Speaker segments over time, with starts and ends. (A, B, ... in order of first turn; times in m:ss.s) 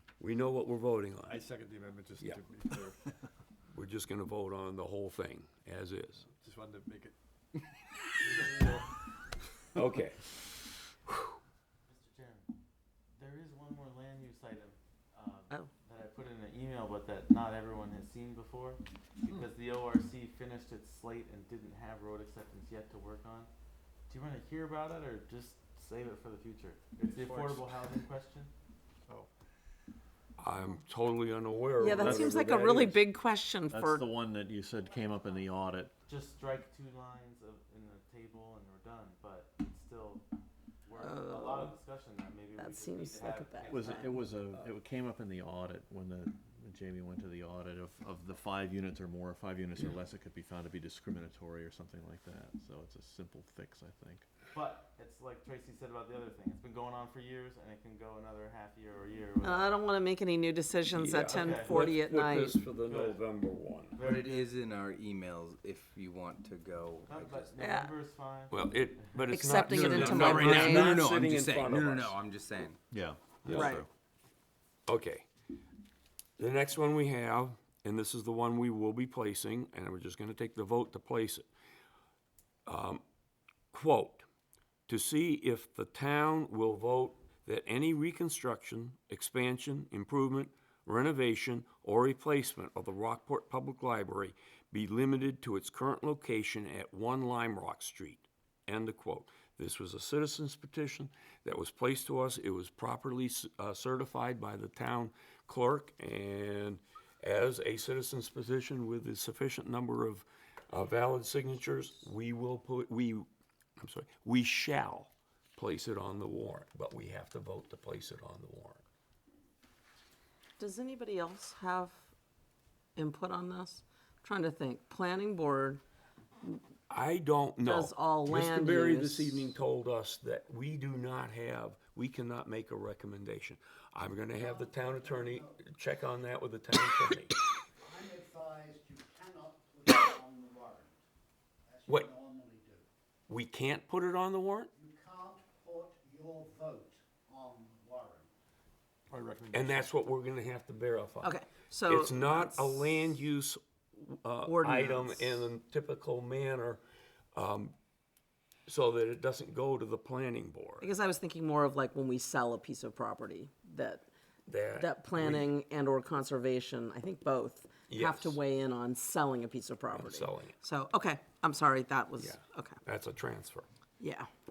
0:00.2-0:01.4 A
0:01.2-0:03.0 B
0:03.7-0:06.3 A
0:06.3-0:07.2 B
0:08.2-0:08.8 B
0:09.7-0:11.3 A
0:11.8-0:12.5 C
0:13.1-0:23.5 C
0:24.1-0:28.5 C
0:27.0-0:27.6 B
0:30.4-0:33.0 A
0:31.8-0:34.0 D
0:32.0-0:32.9 E
0:33.7-0:35.9 E
0:36.0-0:40.2 C
0:40.8-0:44.2 C
0:41.0-0:41.8 D
0:42.6-0:44.1 D
0:43.7-0:54.3 E
0:54.5-0:59.7 C
0:59.4-1:02.6 D
1:00.9-1:04.0 A
1:01.3-1:01.6 C
1:04.0-1:04.4 C
1:04.0-1:07.6 F
1:07.1-1:08.5 C
1:07.6-1:07.9 D
1:08.5-1:12.2 A
1:09.3-1:11.0 D
1:09.6-1:12.8 F
1:12.9-1:13.9 E
1:13.4-1:13.8 A
1:13.5-1:13.8 D
1:14.9-1:15.2 A
1:16.4-1:21.5 A
1:22.6-1:23.0 A
1:23.7-1:24.2 A
1:24.9-1:53.2 A
1:53.8-1:58.8 A
2:00.6-2:02.1 D
2:03.0-2:05.8 D
2:06.9-2:17.3 A
2:07.6-2:09.5 D
2:14.4-2:15.6 G
2:17.8-2:21.0 G
2:21.7-2:22.8 G
2:23.3-2:24.7 A
2:24.7-2:28.3 G
2:29.1-2:29.9 B
2:29.5-2:31.3 A
2:31.2-2:32.9 D
2:31.8-2:36.8 A
2:34.4-2:35.5 D
2:37.3-2:37.7 A
2:38.7-2:40.9 A
2:40.8-2:44.1 D
2:44.5-2:45.5 A
2:44.8-2:52.8 D
2:47.9-2:48.4 A
2:49.9-2:50.6 A
2:52.2-2:53.6 A
2:54.0-2:54.3 D